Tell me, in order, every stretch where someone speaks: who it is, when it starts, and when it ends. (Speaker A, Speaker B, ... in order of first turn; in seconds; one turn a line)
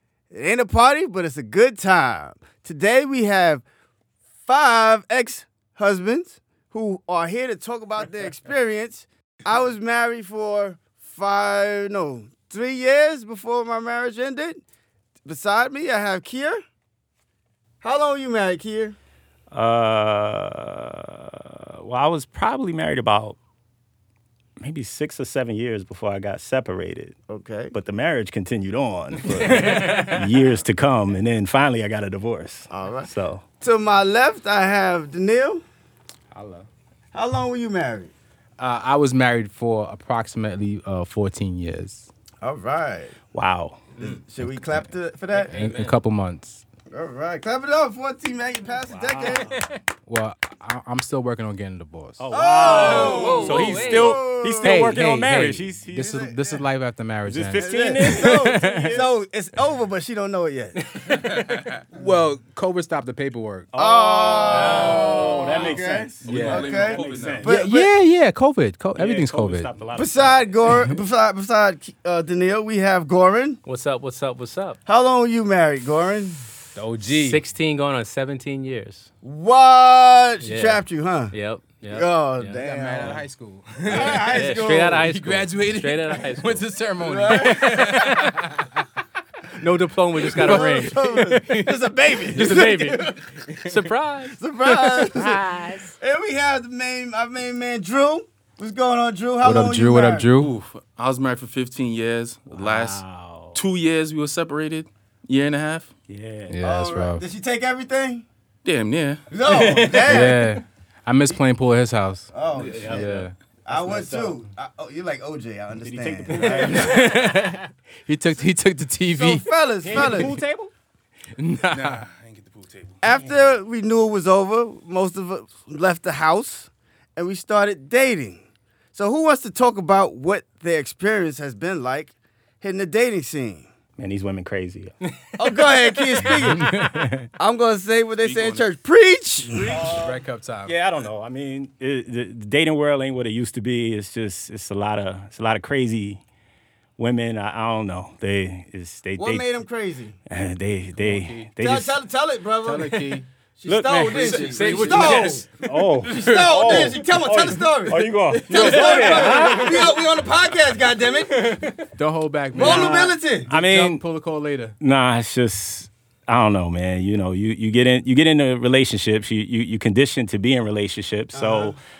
Speaker A: 0.3-3.6
Speaker A: 4.5-14.6
Speaker A: 15.2-16.6
Speaker A: 17.8-18.9
Speaker B: 19.5-23.4
Speaker B: 24.6-27.2
Speaker A: 27.3-27.7
Speaker B: 27.7-33.4
Speaker A: 29.3-29.6
Speaker C: 29.4-30.1
Speaker A: 32.7-33.1
Speaker A: 33.6-35.6
Speaker C: 36.3-36.7
Speaker A: 37.1-38.1
Speaker C: 38.6-42.1
Speaker A: 42.4-43.1
Speaker B: 43.3-43.9
Speaker A: 44.0-45.5
Speaker C: 45.5-46.6
Speaker D: 45.5-45.8
Speaker A: 46.9-49.6
Speaker B: 48.9-49.7
Speaker C: 50.0-52.2
Speaker B: 52.2-56.3
Speaker A: 52.3-54.9
Speaker D: 52.6-54.2
Speaker C: 52.8-53.5
Speaker C: 54.6-59.0
Speaker A: 56.0-56.6
Speaker B: 57.3-59.1
Speaker A: 57.5-61.3
Speaker E: 61.3-61.8
Speaker C: 61.9-63.7
Speaker B: 63.7-67.5
Speaker A: 63.7-67.9
Speaker D: 64.5-65.8
Speaker E: 66.2-67.5
Speaker C: 66.2-66.7
Speaker C: 67.4-69.7
Speaker B: 69.0-70.5
Speaker A: 69.9-73.6
Speaker D: 73.6-74.8
Speaker A: 74.8-76.4
Speaker C: 76.8-77.4
Speaker D: 77.1-79.1
Speaker A: 79.2-81.3
Speaker D: 80.4-82.6
Speaker A: 81.9-83.2
Speaker C: 82.6-84.4
Speaker A: 83.8-85.1
Speaker D: 84.0-86.7
Speaker C: 85.0-88.8
Speaker A: 87.0-87.7
Speaker D: 87.2-88.4
Speaker D: 89.5-91.7
Speaker C: 90.3-90.9
Speaker A: 90.3-93.2
Speaker D: 92.3-95.9
Speaker A: 94.4-100.3
Speaker C: 99.4-100.5
Speaker E: 100.3-103.0
Speaker B: 102.5-103.6
Speaker E: 103.5-105.9
Speaker B: 106.1-106.5
Speaker C: 106.5-107.2
Speaker A: 106.6-108.2
Speaker E: 108.6-109.2
Speaker A: 109.3-110.4
Speaker B: 109.4-110.3
Speaker C: 110.1-112.3
Speaker A: 112.3-113.1
Speaker B: 112.5-114.4
Speaker C: 112.8-113.3
Speaker A: 113.7-117.0
Speaker B: 115.8-117.5
Speaker C: 116.5-119.4
Speaker A: 119.1-120.4
Speaker B: 119.8-120.7
Speaker C: 121.4-122.0
Speaker E: 121.7-123.1
Speaker A: 123.0-128.4
Speaker A: 128.9-133.7
Speaker B: 134.0-134.9
Speaker A: 135.4-139.9
Speaker D: 136.2-137.0
Speaker E: 138.2-138.7
Speaker C: 139.6-140.8
Speaker B: 139.7-146.2
Speaker B: 147.0-149.5
Speaker A: 149.2-150.2
Speaker B: 150.3-152.0
Speaker C: 151.0-151.5
Speaker A: 151.6-155.5
Speaker C: 152.6-153.2
Speaker B: 153.7-160.1
Speaker C: 154.1-156.7
Speaker D: 154.4-155.5
Speaker A: 156.0-161.6
Speaker C: 158.3-159.7
Speaker C: 161.9-164.7
Speaker A: 162.5-163.5
Speaker B: 162.6-164.0
Speaker B: 164.8-171.8
Speaker A: 171.3-171.8